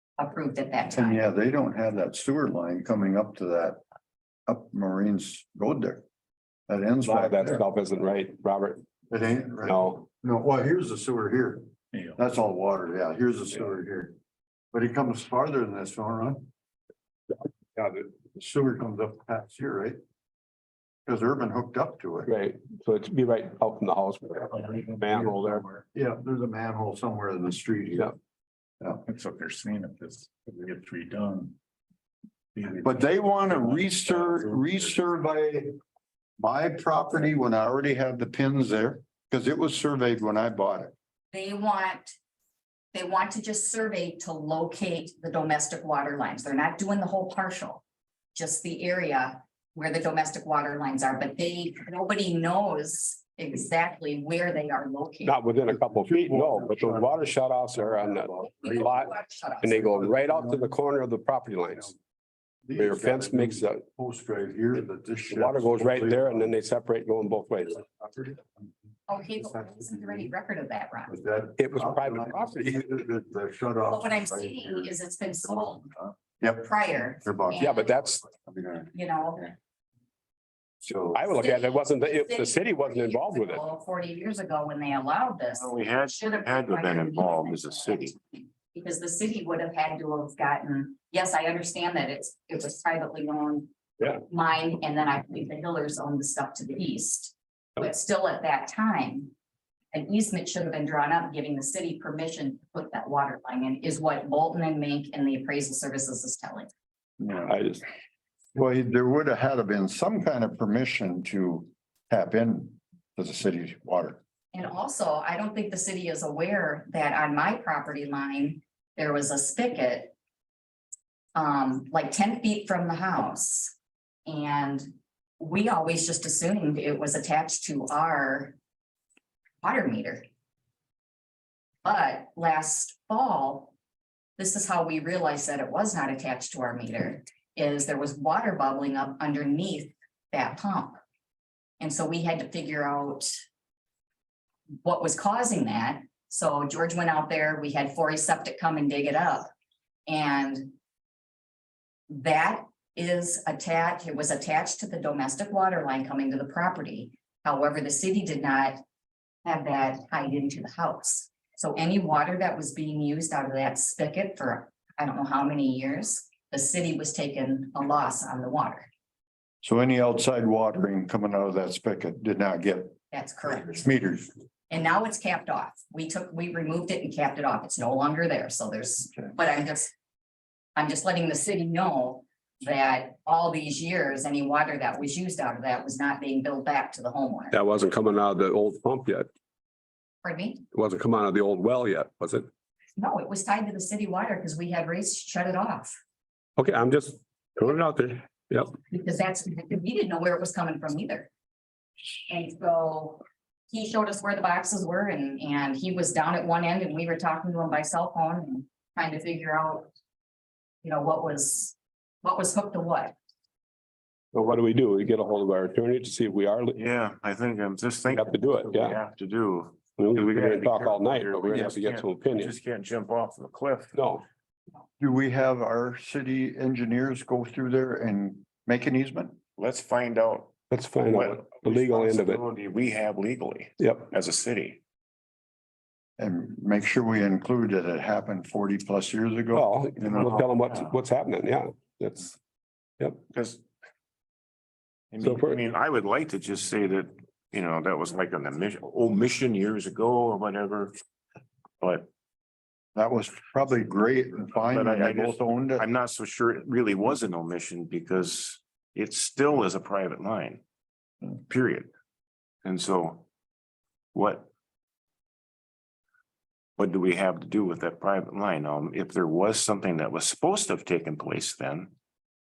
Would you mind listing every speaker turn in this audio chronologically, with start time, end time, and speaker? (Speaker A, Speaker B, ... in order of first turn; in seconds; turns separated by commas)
Speaker A: 0.2-1.2, Speaker B: 0.9-3.8, Speaker B: 4.5-6.0, Speaker B: 6.7-7.6, Speaker C: 7.0-8.8, Speaker B: 9.1-14.2, Speaker C: 9.7-10.0, Speaker D: 11.9-12.2, Speaker B: 14.7-16.5, Speaker B: 17.9-20.0, Speaker B: 21.1-22.3, Speaker C: 22.2-25.6, Speaker D: 24.6-25.8, Speaker B: 25.9-28.1, Speaker D: 29.0-31.5, Speaker D: 32.5-34.9, Speaker B: 32.8-35.8, Speaker B: 36.4-40.9, Speaker A: 41.3-42.2, Speaker A: 42.9-47.8, Speaker A: 48.3-55.4, Speaker C: 55.2-61.9, Speaker B: 55.7-58.9, Speaker A: 58.6-60.0, Speaker B: 59.8-60.7, Speaker B: 62.7-66.6, Speaker C: 62.8-63.8, Speaker C: 65.3-67.8, Speaker B: 67.8-68.6, Speaker A: 69.1-71.2, Speaker B: 69.4-70.3, Speaker B: 71.1-74.9, Speaker C: 71.6-72.8, Speaker A: 73.9-75.8, Speaker B: 75.4-76.7, Speaker A: 76.5-78.0, Speaker B: 77.2-78.9, Speaker C: 77.6-78.2, Speaker A: 78.9-79.5, Speaker B: 80.8-81.2, Speaker C: 81.1-83.6, Speaker A: 81.3-99.3, Speaker E: 85.5-88.1, Speaker A: 99.9-106.7, Speaker B: 107.2-107.6, Speaker C: 107.5-107.8, Speaker B: 108.5-114.2, Speaker A: 114.5-120.1, Speaker A: 121.3-123.7, Speaker A: 124.2-124.9, Speaker A: 125.4-128.6, Speaker A: 129.6-130.2, Speaker A: 131.8-133.7, Speaker A: 134.4-141.0, Speaker A: 141.8-143.3, Speaker A: 144.8-149.5, Speaker A: 150.1-150.7, Speaker A: 152.1-158.8, Speaker A: 159.4-168.9, Speaker B: 169.6-173.0, Speaker A: 173.1-173.9, Speaker B: 173.8-174.3, Speaker A: 174.7-179.9, Speaker A: 180.8-187.6, Speaker C: 187.5-189.3, Speaker A: 190.2-190.6, Speaker C: 190.7-192.5, Speaker A: 193.0-195.9, Speaker C: 196.6-198.7, Speaker A: 198.9-201.3, Speaker A: 202.3-209.9, Speaker A: 210.8-213.2, Speaker C: 214.3-216.8, Speaker E: 216.8-224.0, Speaker C: 218.1-219.0, Speaker C: 220.0-222.6, Speaker C: 223.9-224.2, Speaker B: 225.0-229.4, Speaker E: 229.6-230.5, Speaker C: 230.7-232.4, Speaker E: 231.1-234.8, Speaker C: 233.8-234.1, Speaker B: 236.2-240.3, Speaker C: 239.5-242.3, Speaker E: 240.1-241.0, Speaker E: 243.3-243.6, Speaker E: 245.1-250.9, Speaker C: 245.2-245.6, Speaker E: 251.8-252.1, Speaker B: 252.9-255.9, Speaker E: 254.6-260.6, Speaker E: 261.2-261.9, Speaker E: 262.6-263.2, Speaker E: 264.1-264.5, Speaker E: 266.8-271.9